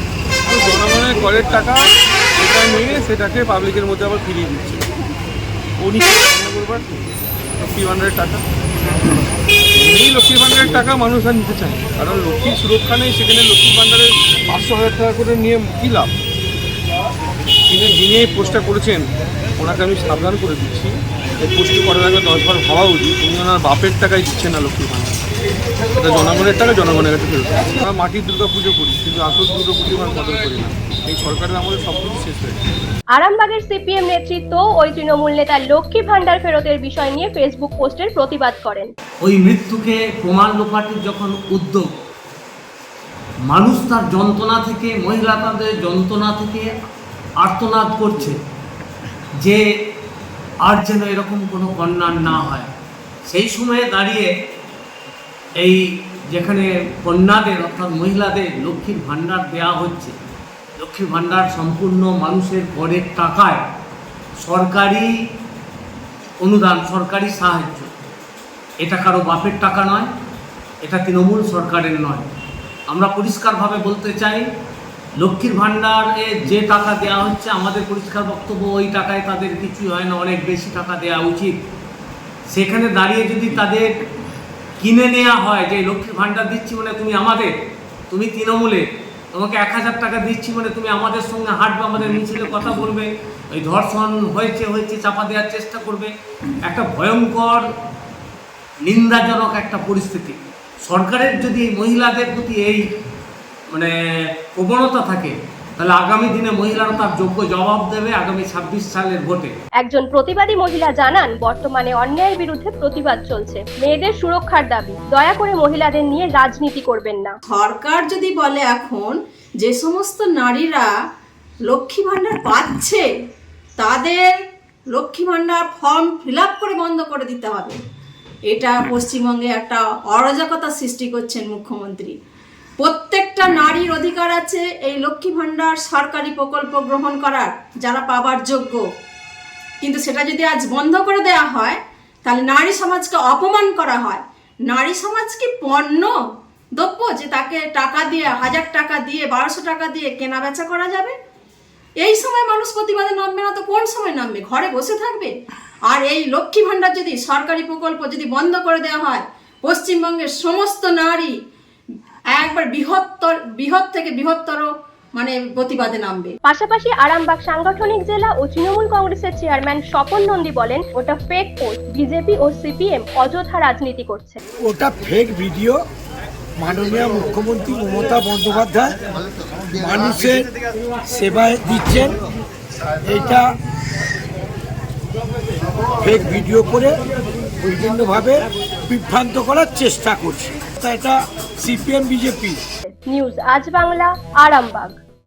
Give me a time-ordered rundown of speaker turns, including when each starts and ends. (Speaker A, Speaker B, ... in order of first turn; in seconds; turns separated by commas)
Speaker A: 0.5-1.8, Speaker A: 2.4-4.9, Speaker A: 5.8-6.8, Speaker A: 7.6-8.4, Speaker A: 9.7-16.1, Speaker A: 17.7-19.1, Speaker A: 19.6-25.1, Speaker A: 26.0-32.6, Speaker B: 33.1-38.9, Speaker C: 39.2-41.9, Speaker C: 43.5-46.7, Speaker C: 47.4-48.4, Speaker C: 50.6-52.7, Speaker C: 53.3-54.3, Speaker C: 56.3-60.1, Speaker C: 60.8-63.6, Speaker C: 64.4-65.1, Speaker C: 66.4-67.9, Speaker C: 68.8-70.1, Speaker C: 70.8-72.2, Speaker C: 72.9-74.5, Speaker C: 75.2-81.5, Speaker C: 82.5-83.9, Speaker C: 84.8-87.5, Speaker C: 88.1-88.8, Speaker C: 89.3-96.1, Speaker C: 96.7-97.6, Speaker C: 98.8-102.8, Speaker C: 104.5-109.5, Speaker B: 109.8-117.3, Speaker D: 117.5-120.9, Speaker D: 121.7-123.0, Speaker D: 123.8-124.2, Speaker D: 124.9-127.8, Speaker D: 128.5-132.1, Speaker D: 132.8-138.8, Speaker D: 139.8-146.1, Speaker D: 146.8-151.2, Speaker D: 152.0-155.3, Speaker D: 155.9-161.3, Speaker D: 162.3-166.3, Speaker B: 166.4-174.4, Speaker E: 174.6-175.8, Speaker E: 176.6-178.9, Speaker E: 179.8-180.4, Speaker E: 181.1-182.2, Speaker E: 183.1-183.5, Speaker E: 186.0-187.0, Speaker E: 187.6-192.6, Speaker B: 192.9-195.0